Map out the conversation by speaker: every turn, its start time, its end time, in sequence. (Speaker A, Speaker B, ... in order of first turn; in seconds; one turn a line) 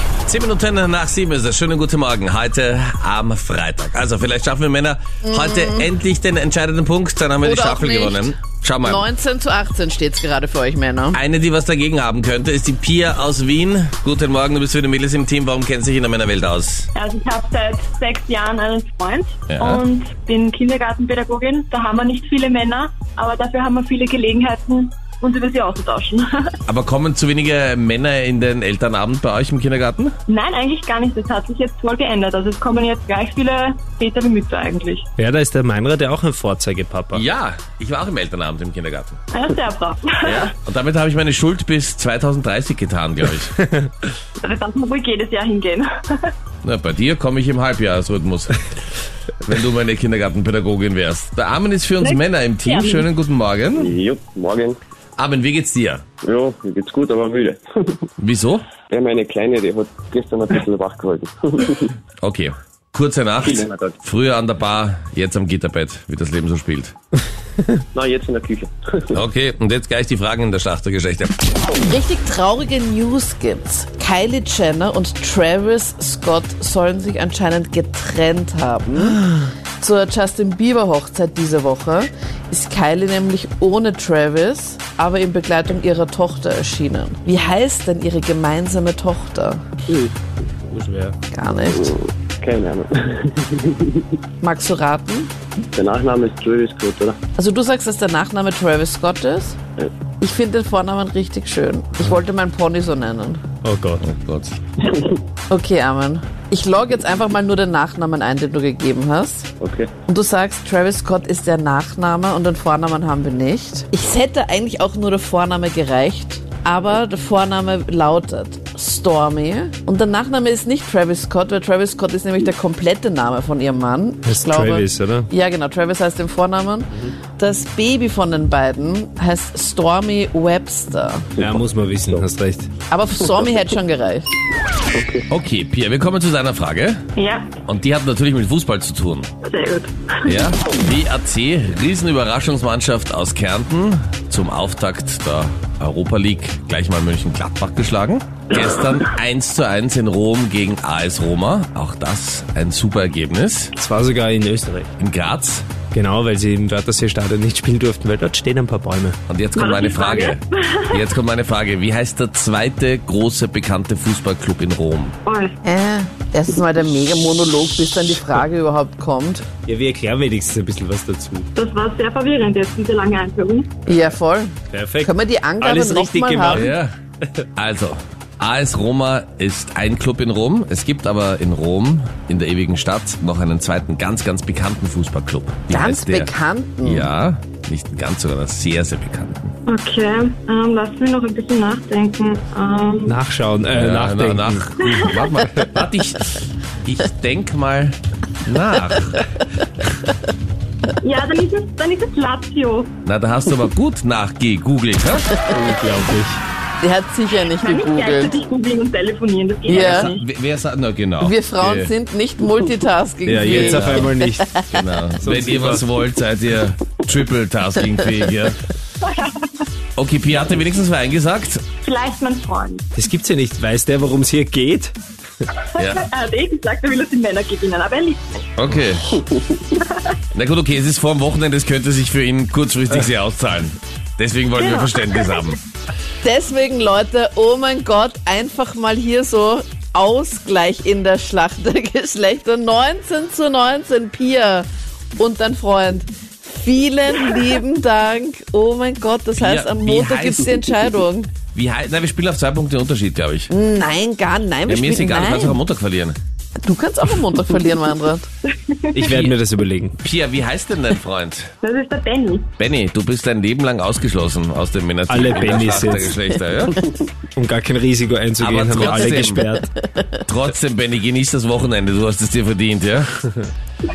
Speaker A: 0.2-9.1
Speaker B: 5.2-5.9
Speaker B: 7.4-11.2
Speaker A: 11.1-16.9
Speaker C: 16.9-26.5
Speaker A: 19.5-19.8
Speaker A: 26.7-30.1
Speaker C: 30.3-35.1
Speaker D: 35.2-37.3
Speaker A: 37.1-39.2
Speaker C: 39.3-40.5
Speaker A: 40.2-43.6
Speaker C: 44.4-46.3
Speaker A: 46.6-48.7
Speaker A: 49.4-54.0
Speaker C: 52.0-53.1
Speaker E: 53.7-54.8
Speaker A: 55.2-56.0
Speaker E: 56.2-58.0
Speaker A: 58.2-58.7
Speaker E: 58.8-61.9
Speaker A: 62.2-67.0
Speaker E: 63.4-64.0
Speaker E: 67.9-69.2
Speaker A: 69.1-71.5
Speaker B: 71.8-89.6
Speaker E: 89.9-90.2
Speaker D: 90.7-91.2
Speaker B: 91.3-92.0
Speaker E: 91.7-94.0
Speaker B: 94.4-95.3
Speaker E: 95.7-97.2
Speaker B: 97.4-99.6
Speaker B: 100.2-103.4
Speaker D: 103.6-104.1
Speaker A: 104.0-104.6
Speaker B: 105.5-109.5
Speaker E: 109.6-109.9
Speaker B: 110.1-131.3
Speaker D: 124.2-125.3
Speaker E: 131.4-132.2
Speaker D: 131.4-132.7
Speaker B: 132.9-134.3
Speaker A: 135.3-137.0
Speaker C: 137.2-137.5
Speaker A: 137.7-139.3
Speaker C: 139.4-140.4
Speaker A: 140.2-153.7
Speaker C: 148.5-149.1
Speaker D: 153.8-154.9
Speaker A: 155.0-155.7
Speaker D: 155.9-159.2
Speaker A: 159.3-165.2
Speaker C: 159.6-161.1
Speaker C: 165.2-165.6
Speaker B: 165.6-169.5
Speaker D: 169.7-171.5
Speaker C: 171.6-173.7
Speaker B: 173.9-176.7
Speaker D: 174.7-176.8
Speaker A: 176.5-176.9
Speaker A: 177.6-186.3
Speaker B: 185.7-187.1
Speaker A: 186.8-189.5
Speaker C: 189.7-193.2
Speaker D: 193.1-194.8
Speaker A: 193.7-199.2
Speaker C: 201.0-202.9
Speaker A: 203.1-205.4
Speaker D: 205.5-206.4
Speaker B: 206.8-208.4
Speaker C: 207.6-210.2
Speaker B: 209.7-210.1
Speaker A: 209.9-211.9
Speaker B: 211.2-214.9
Speaker D: 213.3-214.5
Speaker A: 214.7-218.6
Speaker D: 215.2-215.8
Speaker C: 219.1-219.6
Speaker A: 220.0-221.7
Speaker C: 221.8-222.8
Speaker D: 222.9-225.0
Speaker C: 225.8-228.2
Speaker A: 225.8-226.1
Speaker A: 228.6-229.2
Speaker C: 229.8-230.0
Speaker A: 230.3-235.6
Speaker C: 234.6-235.5
Speaker B: 236.2-251.3
Speaker A: 249.4-250.6
Speaker A: 251.5-253.5
Speaker B: 253.5-255.6
Speaker A: 254.7-256.2
Speaker B: 256.6-258.3
Speaker C: 258.6-259.2
Speaker D: 258.9-260.0
Speaker A: 260.0-261.5
Speaker C: 261.6-262.5
Speaker A: 262.6-266.8
Speaker D: 265.1-266.2
Speaker D: 267.4-269.7
Speaker A: 268.4-269.4
Speaker B: 269.6-270.2
Speaker A: 270.3-273.1